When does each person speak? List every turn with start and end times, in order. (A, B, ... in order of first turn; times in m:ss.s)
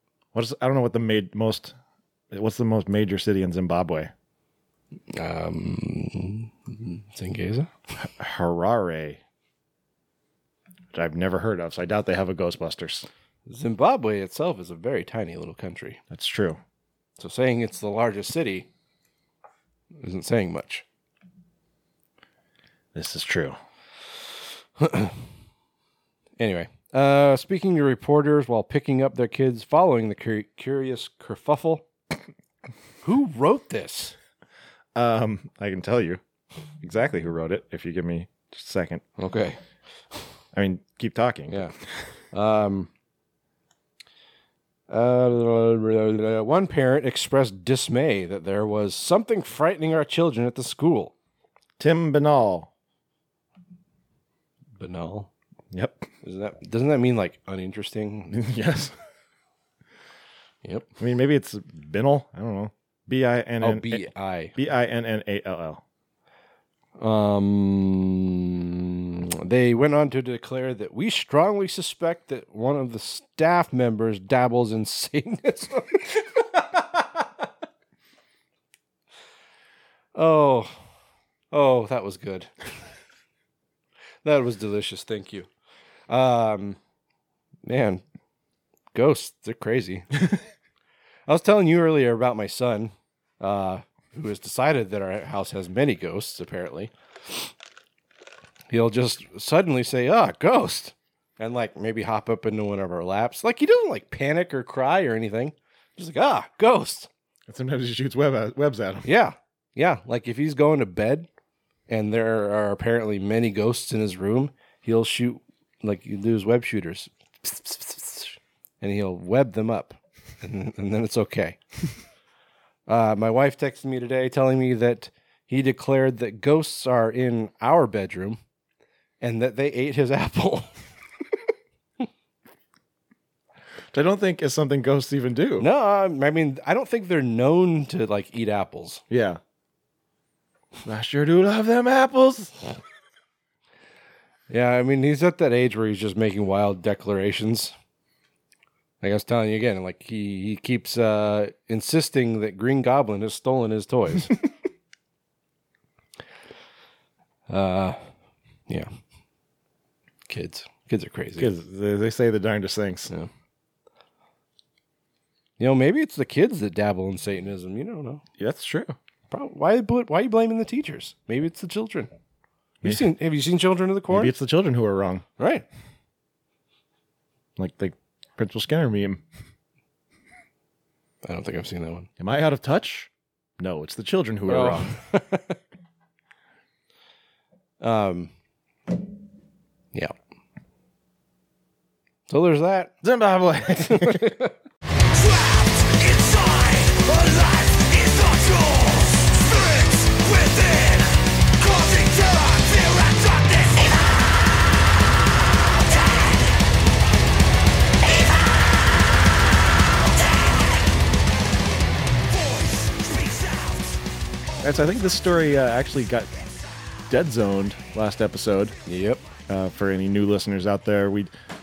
0:00.3-0:01.7 A
0:02.3-0:04.1 A
0:05.1-0:07.7 B
0:08.0-0:09.2 A
0:10.9-0:13.1 A
0:13.5-0:16.0 B
0:16.1-0:16.6 A
0:17.2-0:18.7 B
0:20.0-0:20.8 B
0:22.9-0:23.6 A
0:24.8-0:25.2 B
0:26.4-0:31.8 B
0:33.0-0:34.1 B
0:34.9-0:36.2 A
0:36.8-0:39.0 A
0:39.2-0:39.6 B
0:40.5-0:41.7 A
0:41.5-0:41.7 B
0:42.3-0:42.9 B
0:44.9-0:51.1 B
0:51.8-0:52.7 A
0:54.8-0:55.3 B
0:55.7-0:56.1 A
0:56.2-0:58.4 B
0:58.3-0:58.9 A
1:00.6-1:00.9 B
1:01.0-1:04.0 A
1:03.6-1:04.5 B
1:04.6-1:05.8 A
1:07.0-1:16.6 B
1:20.1-1:20.8 B
1:21.5-1:22.5 B
1:24.2-1:25.5 B
1:26.1-1:26.8 B
1:27.6-1:28.0 B
1:28.9-1:30.2 B
1:31.3-1:37.5 B
1:38.7-1:47.1 B
1:47.5-1:49.1 A
1:49.0-1:51.3 B
1:51.9-2:01.6 B
2:02.9-2:08.4 B
2:09.2-2:10.7 B
2:13.9-2:15.7 A
2:15.6-2:19.0 B
2:19.1-2:19.4 A
2:20.8-2:22.7 A
2:24.5-2:27.7 B
2:29.0-2:34.3 B
2:37.5-2:38.1 B
2:40.3-2:41.5 B
2:41.4-2:43.1 A
2:45.6-2:48.2 B
2:48.4-2:49.0 A
2:49.3-2:52.1 B
2:52.8-2:53.1 A
2:52.8-2:54.3 B
2:54.1-2:55.2 A
2:55.4-2:55.6 B
2:57.6-2:59.2 A
3:01.2-3:02.1 B
3:02.2-3:04.9 A
3:04.5-3:05.6 B
3:07.8-3:08.3 B
3:12.3-3:13.0 B
3:13.0-3:14.4 A
3:13.8-3:14.5 B
3:15.3-3:21.0 C
3:21.7-3:23.1 C
3:34.6-3:36.3 A
3:37.1-3:38.8 A
3:38.8-3:39.2 B
3:39.5-3:41.3 A